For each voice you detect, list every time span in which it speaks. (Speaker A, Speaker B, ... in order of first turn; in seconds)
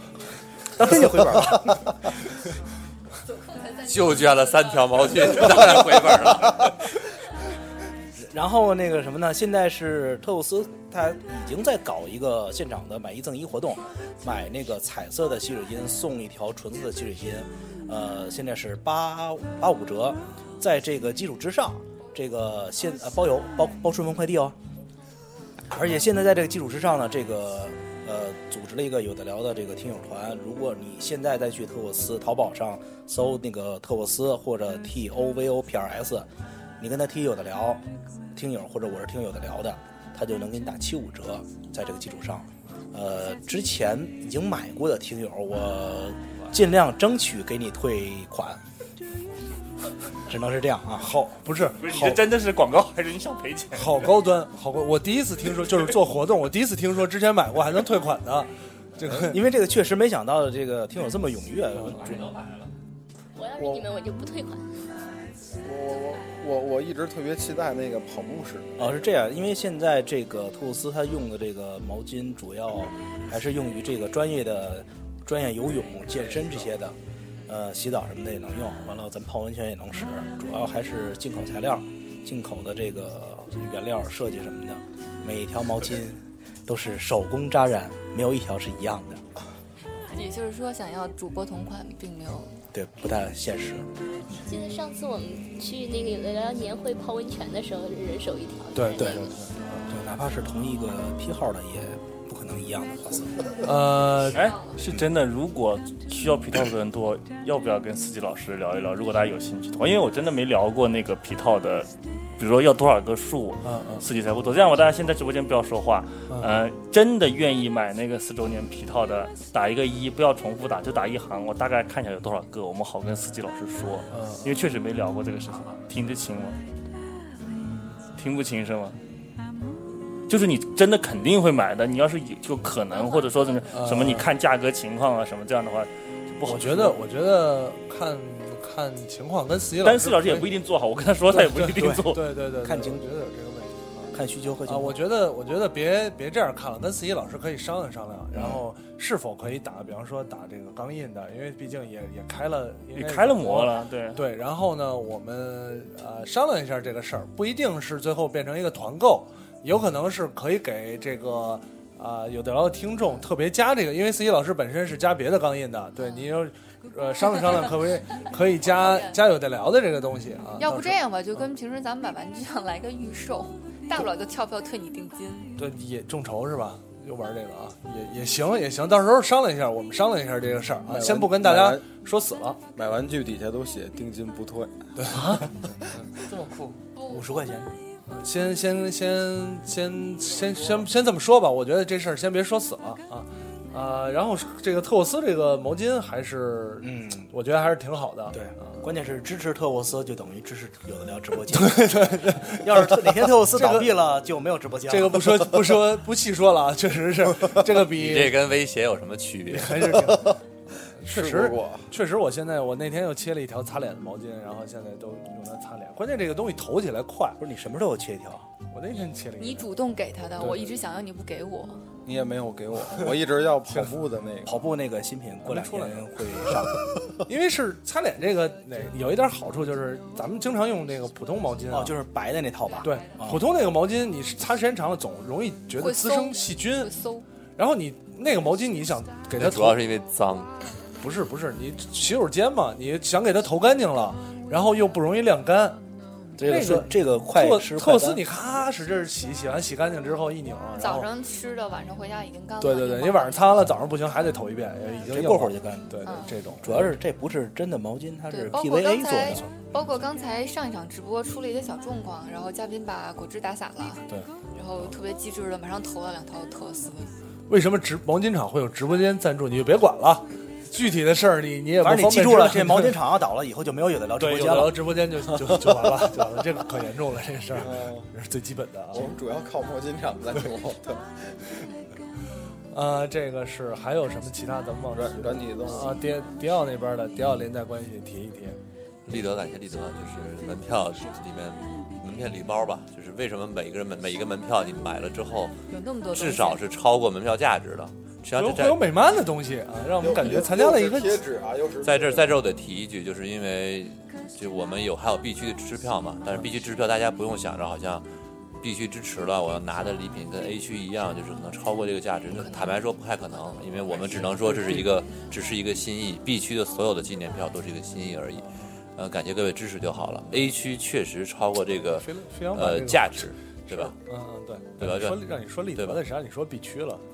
Speaker A: 0.8-1.9, 8.2-24.6, 25.7-36.3, 36.8-37.8, 38.3-48.6, 50.3-51.1, 59.1-62.4, 68.8-77.0, 77.5-89.2, 92.7-93.9, 99.9-103.5, 142.6-143.0, 144.1-145.0, 148.3-148.6, 187.1-187.7, 196.8-197.3, 198.3-205.5, 217.4-218.5, 224.5-226.9, 231.7-233.4, 246.4-248.2, 255.0-256.0, 256.6-259.5, 271.8-274.8
Speaker B: 3.8-6.8, 62.1-62.6, 207.8-210.1, 239.3-240.5, 289.1-295.6, 296.1-298.8, 301.8-308.0, 308.6-323.9, 324.8-326.0
Speaker C: 51.0-52.3, 53.7-59.4, 98.7-100.0, 103.6-104.5, 113.6-114.0, 124.1-124.5, 133.7-134.3, 136.4-140.5, 141.3-171.0, 175.6-182.6, 184.9-186.0, 188.1-198.8, 201.5-204.2, 204.9-208.4, 209.5-210.4, 211.0-217.4, 218.7-219.7, 220.4-220.7, 225.4-226.6, 227.2-232.0, 232.8-236.9, 237.6-239.8, 241.0-245.8, 246.4-251.1, 252.6-257.0, 267.5-273.0, 274.2-279.1, 282.7-288.6, 298.3-301.2, 313.9-314.9, 321.9-327.0
Speaker D: 51.8-54.1, 104.3-126.6, 128.2-129.0, 130.3-137.0, 139.8-142.3, 152.9-154.2
Speaker E: 63.4-64.6, 94.4-99.2
Speaker F: 63.5-63.9, 65.6-68.7, 180.9-181.8, 182.8-185.2, 211.0-211.9, 222.0-224.5, 277.5-278.1, 278.9-281.6, 284.9-286.0, 300.0-302.4
Speaker G: 90.1-92.5, 168.7-169.1, 170.6-175.5, 186.9-187.2, 219.4-221.8, 235.8-237.2, 250.8-253.7, 256.0-256.3, 258.3-267.1, 295.7-296.6, 312.3-313.6